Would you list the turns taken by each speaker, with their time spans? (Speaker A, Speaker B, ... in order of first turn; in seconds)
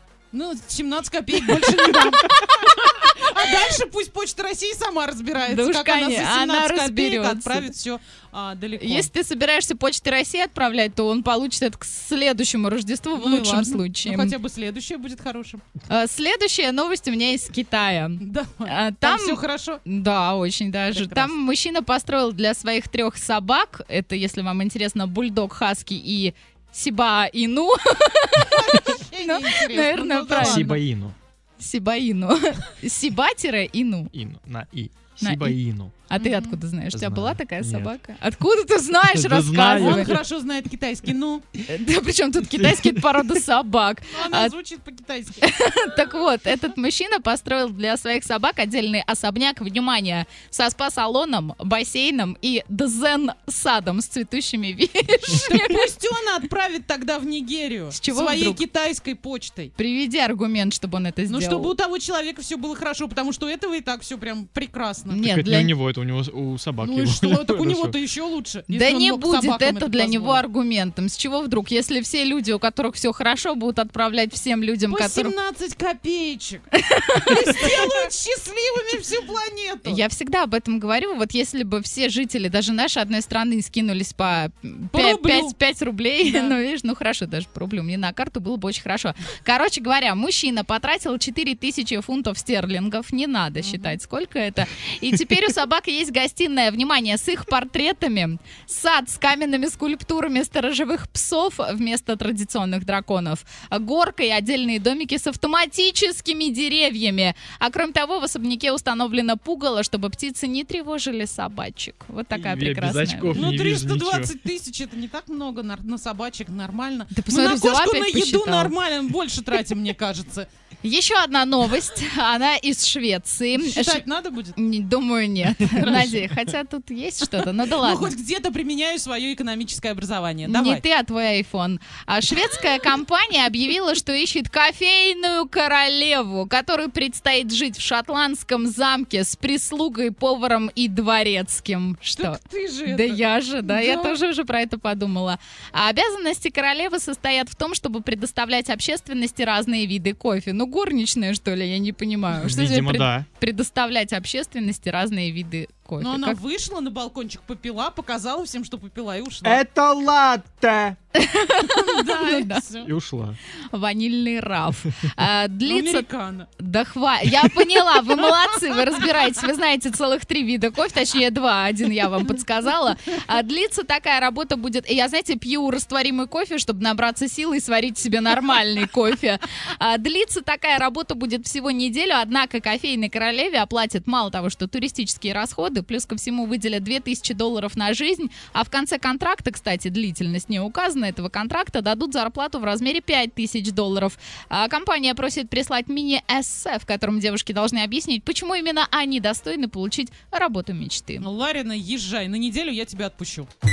Speaker A: 0.3-9.1, 13.2-15.6, 18.2-19.8, 20.9-21.3, 28.4-30.8, 36.1-36.6, 39.8-41.5, 44.1-45.4, 55.3-59.7, 61.3-65.3, 66.8-70.5, 74.9-76.7, 77.2-80.0, 84.9-85.5, 86.2-86.6, 93.6-94.0, 113.3-120.5, 123.5-124.6, 125.6-126.4, 127.4-130.8, 142.2-144.2, 156.0-159.6, 161.6-162.9, 165.7-166.5, 167.3-169.1, 201.2-203.5
Speaker B: 5.4-7.7, 8.8-14.3, 15.9-30.8, 31.6-34.1, 35.2-35.6, 36.1-40.1, 41.6-44.5, 45.4-55.9, 57.9-58.6, 59.8-61.7, 65.1-65.7, 68.7-75.3, 76.7-77.7, 79.9-113.4, 117.1-118.7, 120.8-124.0, 124.5-128.1, 130.5-156.4, 161.2-162.6, 163.7-166.1, 166.6-201.3
Speaker C: 30.3-31.2, 34.1-35.9, 36.9-37.9, 39.1-40.2, 42.4-43.4, 65.2-68.0, 112.3-114.3, 152.3-153.3, 159.4-161.0, 162.8-163.4